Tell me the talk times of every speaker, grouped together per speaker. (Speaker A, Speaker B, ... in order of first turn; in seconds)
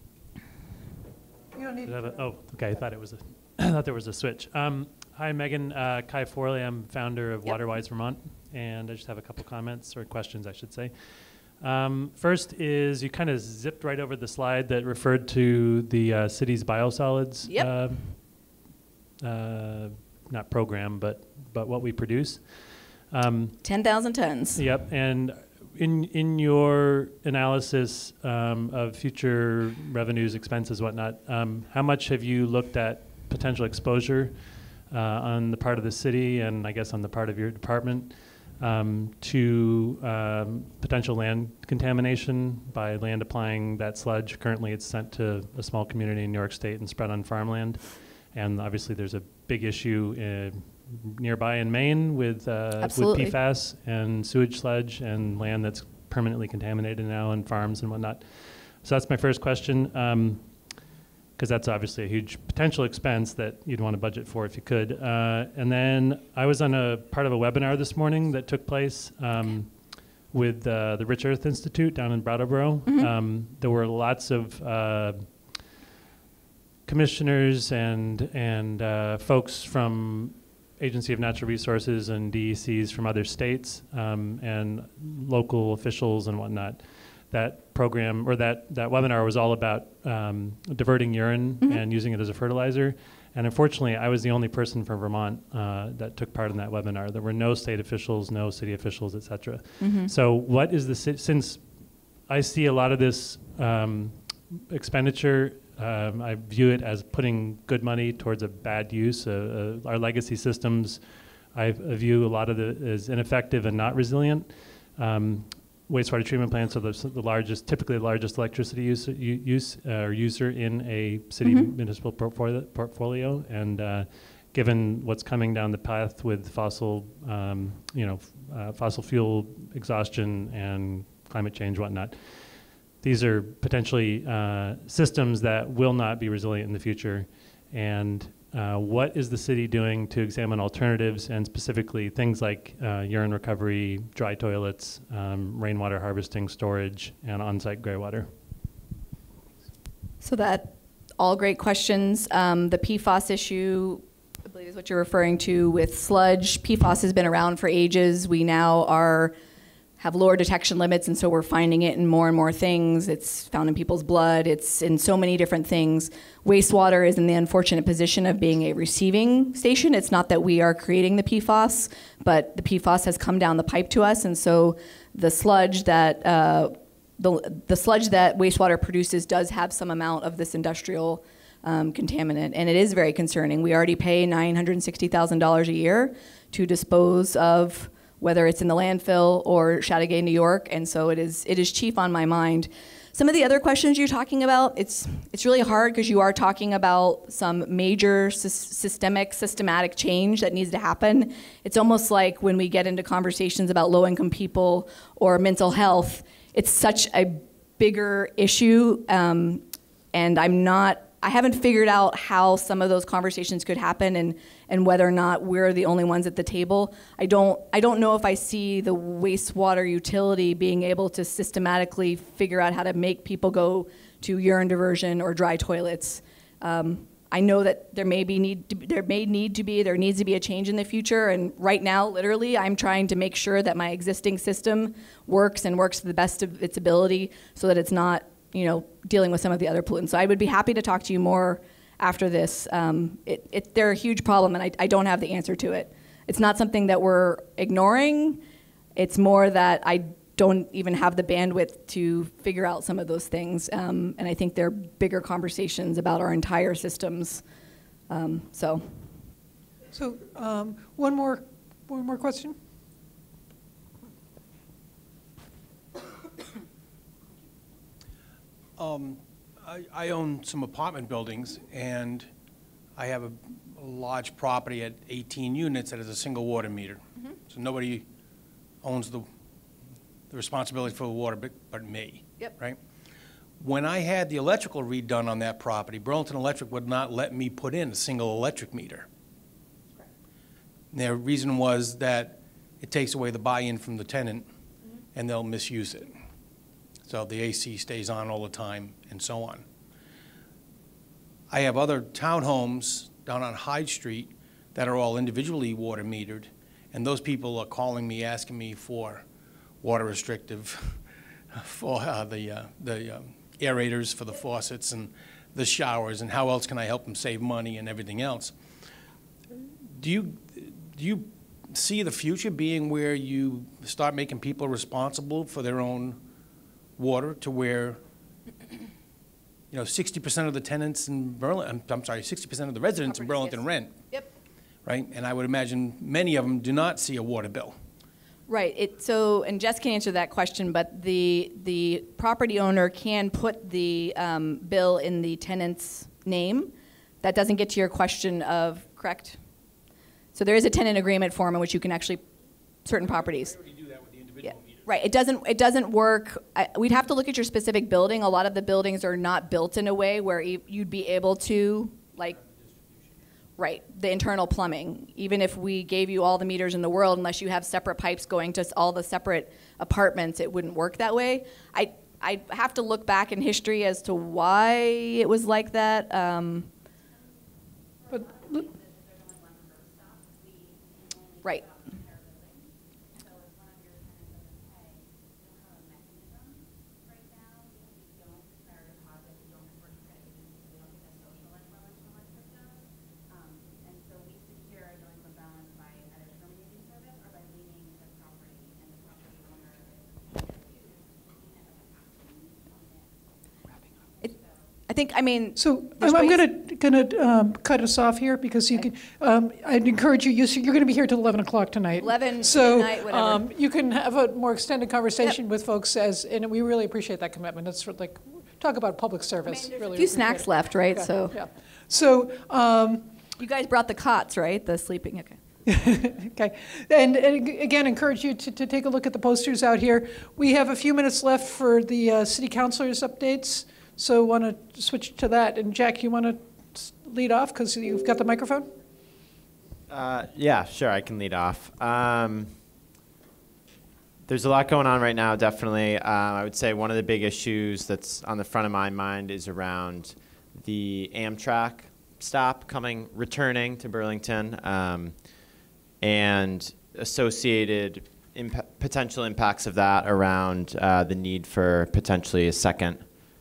Speaker A: 1.6-2.8, 259.9-262.6, 378.1-378.6, 405.6-423.1, 425.7-438.7
Speaker B: 1.9-18.2, 19.2-23.6, 24.6-75.7, 76.8-148.3
Speaker C: 17.4-17.9, 23.6-24.6, 52.8-53.4, 72.9-73.1, 99.8-100.1, 121.4-121.7, 150.2-159.3, 160.0-248.4, 249.0-257.4, 258.1-258.9, 333.0-334.3, 338.5-349.4, 350.4-352.2, 352.9-353.6, 354.4-362.4, 363.6-376.7, 404.9-406.5, 412.0-413.4, 419.5-421.4, 423.4-425.4
Speaker D: 268.8-272.3, 273.0-278.1, 278.8-279.3, 280.3-282.8, 283.6-289.1, 290.9-294.5, 295.1-296.1, 297.1-299.6, 301.5-309.2, 309.8-311.0, 311.5-318.5, 319.9-326.2, 327.0-328.0, 329.7-333.9, 334.9-337.8
Speaker E: 439.9-442.5, 444.3-455.2, 456.0-463.0